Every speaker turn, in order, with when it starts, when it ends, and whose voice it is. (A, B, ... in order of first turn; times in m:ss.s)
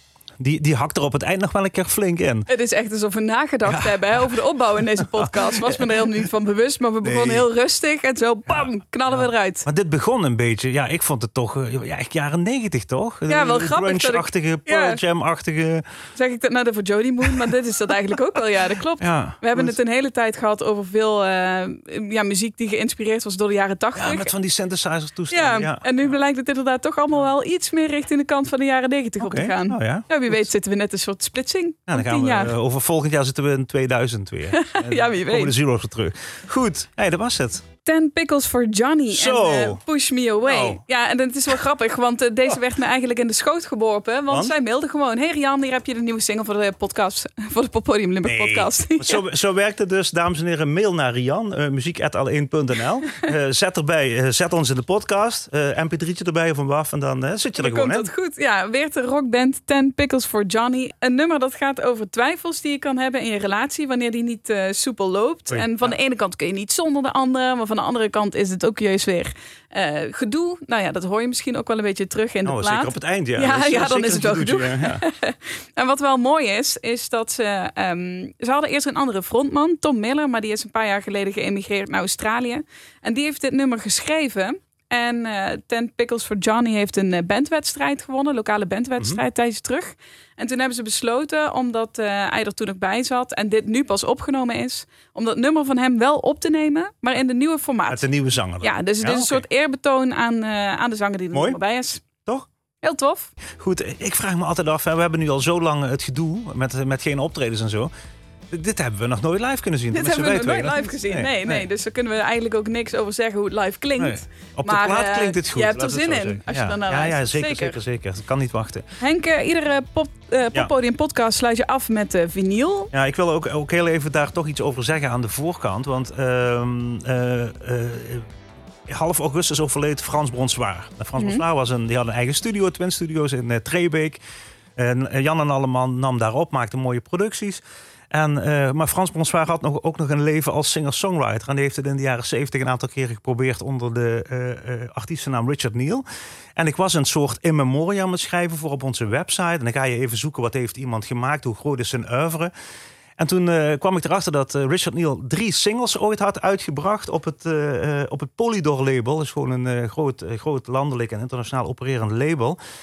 0:00.4-0:02.5 A
0:02.5-0:09.6 B
0:03.6-0:04.3 A
0:04.9-0:06.0 A
0:07.0-0:07.4 A
0:08.5-0:15.8 A
0:13.3-0:15.0 B
0:16.2-0:24.3 B
0:19.0-0:19.8 A
0:23.9-0:25.8 A
0:25.3-0:32.5 B
0:29.2-0:30.5 A
0:31.9-0:37.6 A
0:34.6-0:35.5 B
0:37.8-0:49.2 B
0:39.1-0:39.8 A
0:40.4-0:40.8 A
0:48.2-0:58.1 A
0:57.6-1:38.0 B
1:05.5-1:06.0 A
1:12.4-1:15.0 A
1:37.9-1:39.4 A
1:38.6-1:42.0 B
1:41.3-1:41.6 A
1:42.8-1:43.3 B
1:43.5-1:47.9 A
1:48.5-1:51.6 A
1:49.9-1:57.8 B
1:54.0-1:58.8 A
1:59.0-2:02.9 B
2:02.9-2:08.3 A
2:08.9-2:14.2 A
2:14.8-2:26.0 A
2:26.6-2:32.5 A
2:33.2-2:42.6 A